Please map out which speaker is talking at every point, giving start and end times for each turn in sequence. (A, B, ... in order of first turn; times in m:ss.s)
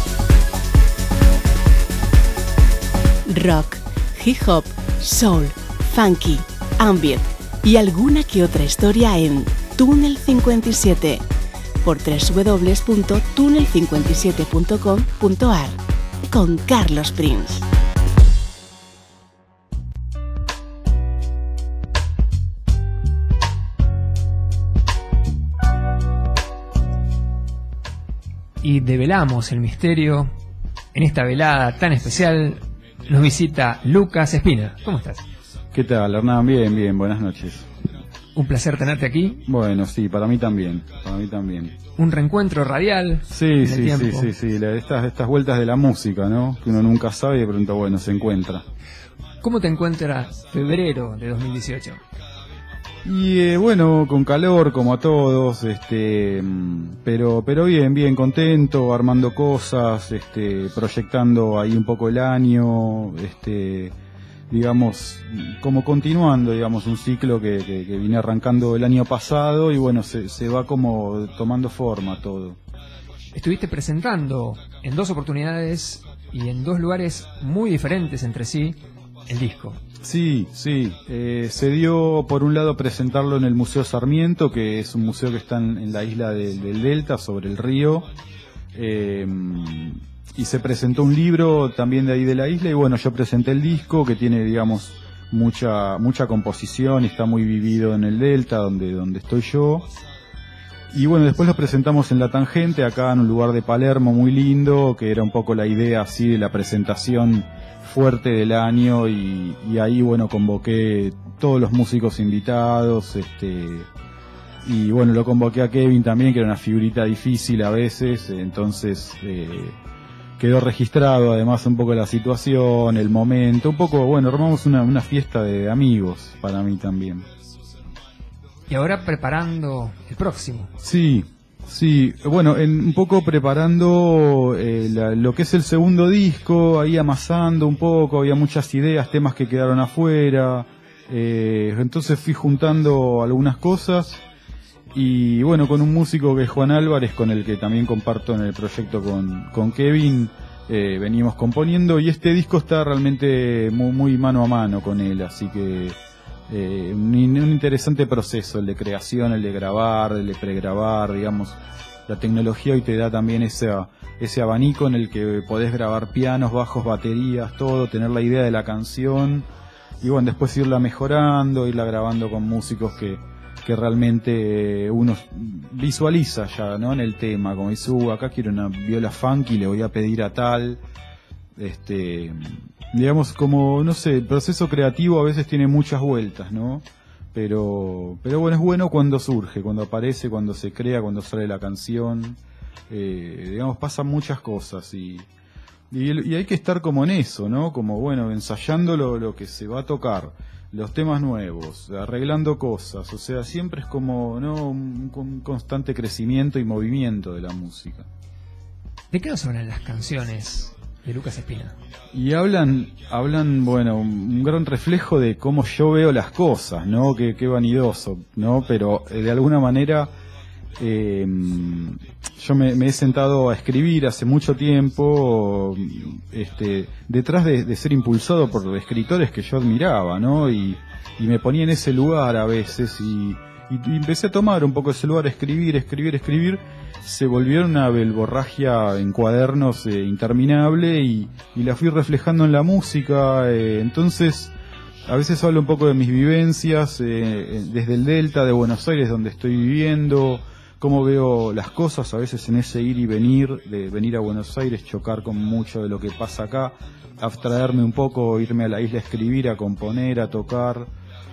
0:03.3-0:11.3 A
0:11.8-0:17.7 A
0:28.6-0:30.3 B
0:30.9-0:35.3 B
0:35.7-0:37.7 C
0:38.4-0:39.4 B
0:39.4-0:41.8 C
0:42.0-0:44.3 B
0:43.3-0:48.6 C
0:49.4-0:52.0 B
0:53.0-1:04.0 C
1:04.5-1:12.6 C
1:13.3-1:19.8 B
1:20.0-1:28.1 C
1:28.7-1:39.9 C
1:40.9-1:53.9 C
1:54.6-1:59.8 C
2:00.4-2:07.3 C
2:08.7-2:10.7 B
2:10.8-2:24.2 C
2:24.9-2:36.0 C
2:36.5-2:49.5 C
2:50.0-3:00.8 C
3:01.6-3:15.3 C
3:15.9-3:28.1 C
3:29.1-3:31.8 B
3:32.1-3:40.1 C
3:40.8-4:04.5 C
4:05.1-4:20.9 C